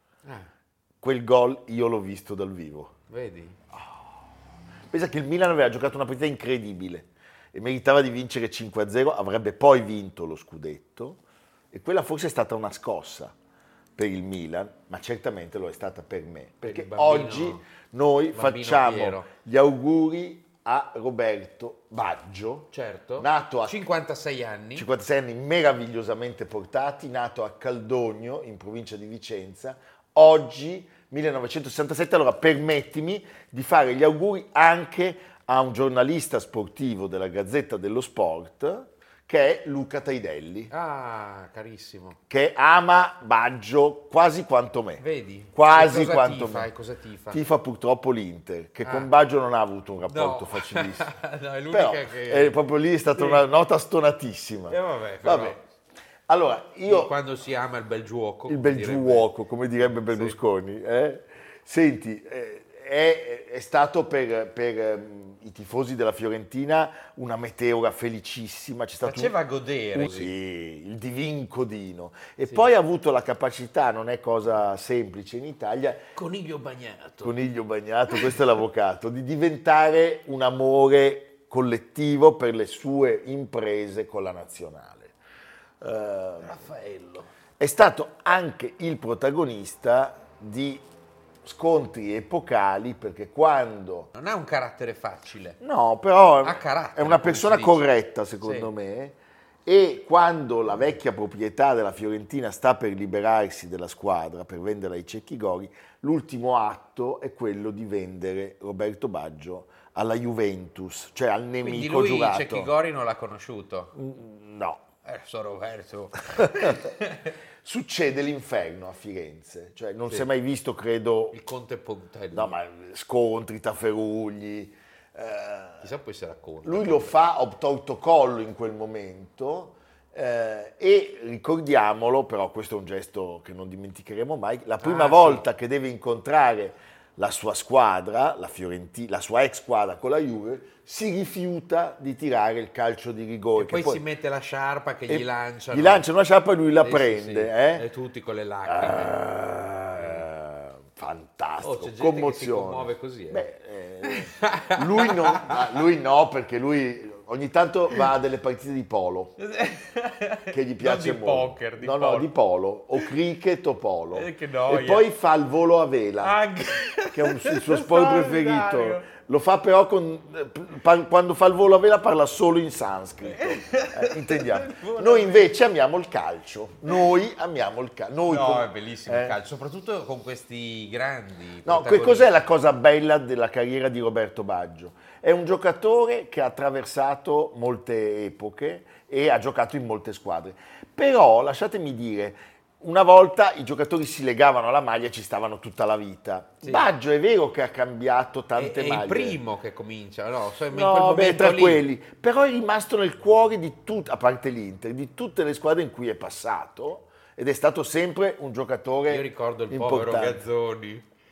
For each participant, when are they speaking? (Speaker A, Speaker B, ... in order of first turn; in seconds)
Speaker A: 1.0-3.0, 3.7-4.1, 4.9-11.2, 11.7-13.3, 14.0-23.9, 24.8-40.7, 42.3-45.0, 45.5-46.7, 47.3-51.1, 51.7-55.6, 56.3-57.1, 58.5-69.3, 70.0-76.0, 77.2-85.1, 85.8-86.5, 87.6-90.8, 91.5-94.1, 95.6-112.7, 114.0-114.8, 117.6-121.4, 122.3-125.9, 126.6-144.0, 145.1-147.9, 148.7-159.3, 160.5-166.4, 167.1-179.4, 181.7-199.4, 200.7-210.4
Speaker B: 3.1-3.6, 16.6-17.6, 18.3-19.3, 22.7-24.9, 40.7-42.2, 45.0-47.4, 48.9-49.1, 50.1-52.6, 53.1-53.5, 54.7-55.6, 56.9-59.3, 59.8-60.4, 69.0-70.3, 72.4-72.7, 76.2-77.4, 78.1-78.4, 86.4-87.3, 94.1-95.6, 96.4-97.9, 98.4-98.7, 111.6-113.9, 115.0-117.3, 121.3-122.5, 125.8-127.2, 134.8-135.5, 143.6-146.1, 146.8-149.2, 150.0-150.2, 151.6-153.4, 154.1-155.6, 159.4-162.3, 164.1-165.1, 166.2-169.1, 173.2-175.5, 178.2-182.4, 196.6-196.9, 198.6-201.9, 209.1-211.1